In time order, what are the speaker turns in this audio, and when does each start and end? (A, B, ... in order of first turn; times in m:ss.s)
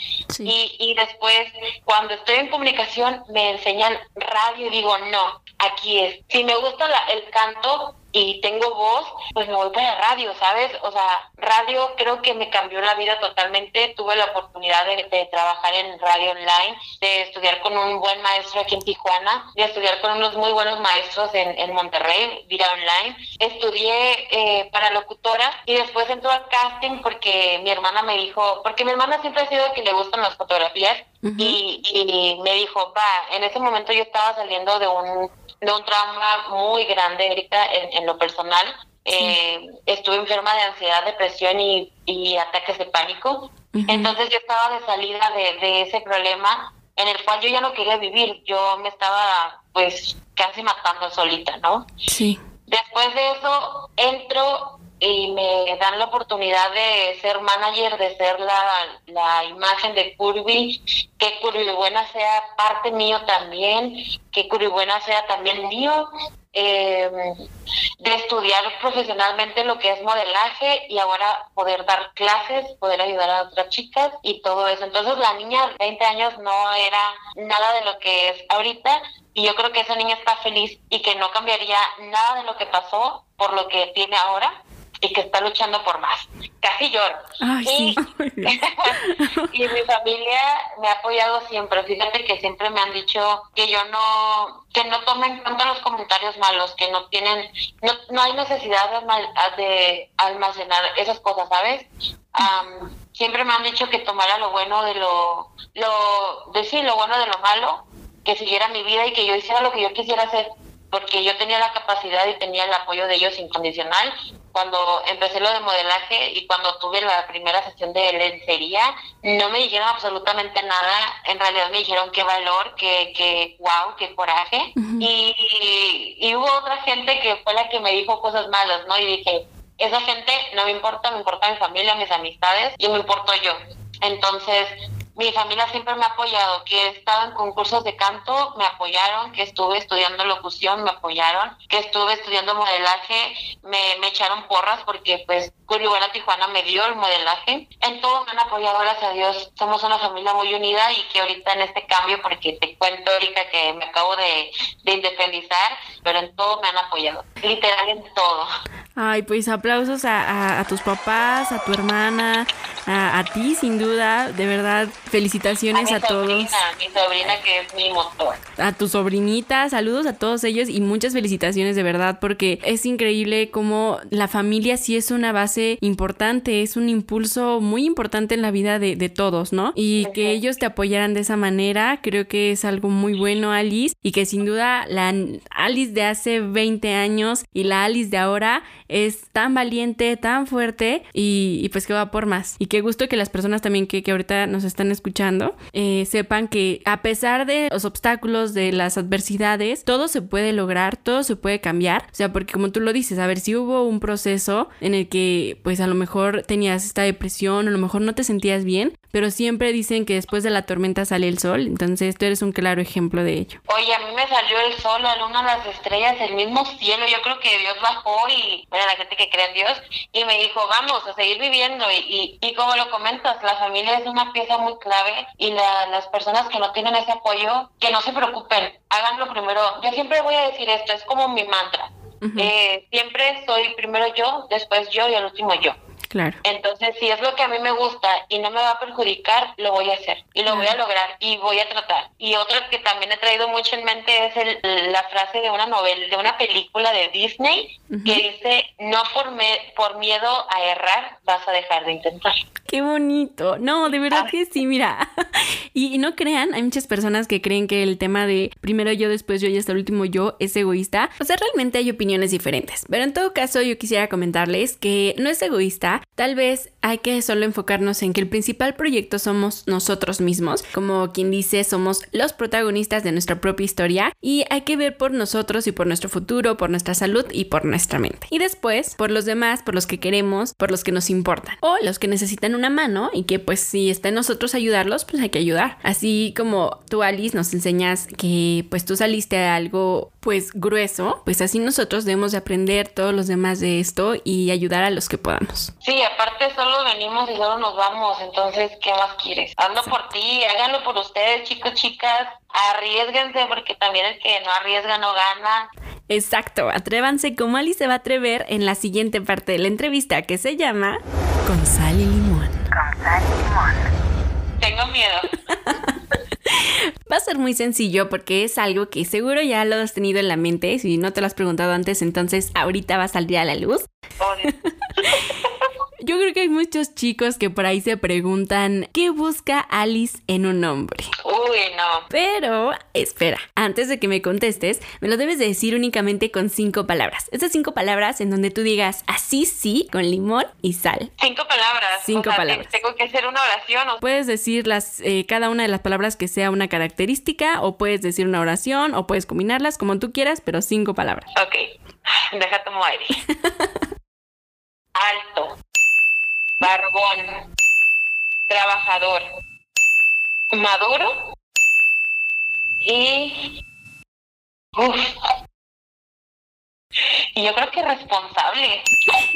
0:00.4-0:51.9 A
0:31.2-0:31.6 B
0:43.7-0:44.2 B
0:52.1-0:52.4 B
0:52.7-1:07.4 A
1:08.0-2:38.5 A
1:27.4-1:29.5 B
2:04.8-2:05.1 B
2:39.0-2:46.6 B
2:45.7-2:48.4 A
2:48.6-3:33.6 B
3:00.0-3:00.4 A
3:33.7-3:55.8 A
3:52.2-3:52.5 B
3:56.1-3:56.4 B
3:56.4-4:12.4 A
4:00.5-4:00.7 B
4:07.9-4:08.2 B
4:12.7-4:55.7 B
4:55.8-5:05.7 A
5:06.1-5:13.7 B
5:14.6-5:15.4 A
5:15.6-5:15.9 B
5:16.5-5:23.9 B
5:24.2-5:25.7 A
5:24.5-5:25.3 B
5:26.0-5:31.1 B
5:31.2-5:32.1 A
5:32.1-5:41.1 B
5:41.2-5:44.0 A
5:42.0-5:42.8 B
5:44.0-5:51.3 B
5:51.4-5:53.2 A
5:54.9-5:55.6 A
5:56.6-5:57.5 A
5:58.5-5:59.3 A
6:00.5-6:01.1 A
6:02.8-6:03.6 A
6:04.8-6:05.2 A
6:07.4-6:08.9 A